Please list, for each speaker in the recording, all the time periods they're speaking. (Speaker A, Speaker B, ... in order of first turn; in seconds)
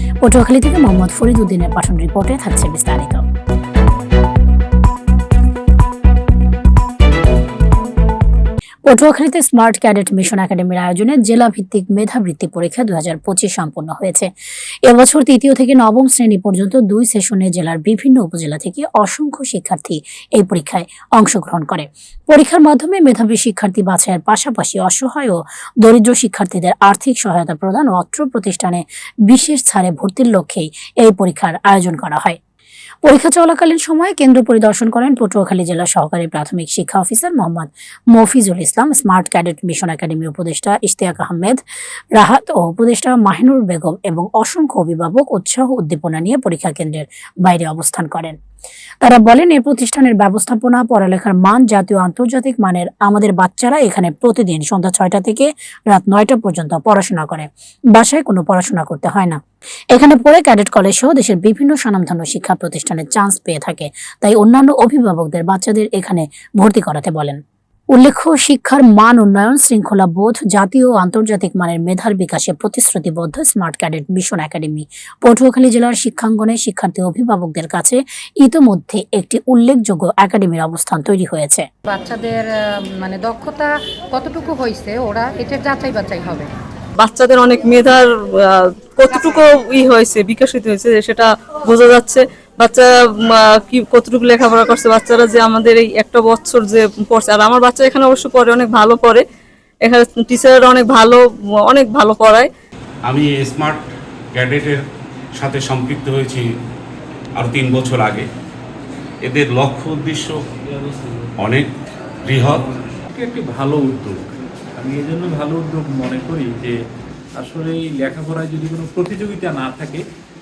Speaker A: 0.2-3.2, 8.8-14.3, 14.8-32.4, 33.0-41.6, 42.1-48.4, 49.0-59.4, 59.9-67.4, 67.9-81.7
Speaker B: 81.9-86.5
Speaker C: 87.0-99.2, 99.8-102.5
Speaker D: 103.0-103.8, 104.3-104.8, 105.4-106.4, 107.3-108.3, 109.2-110.4, 111.4-111.7, 112.3-112.6
Speaker E: 110.8-111.3, 112.8-116.8, 117.4-120.0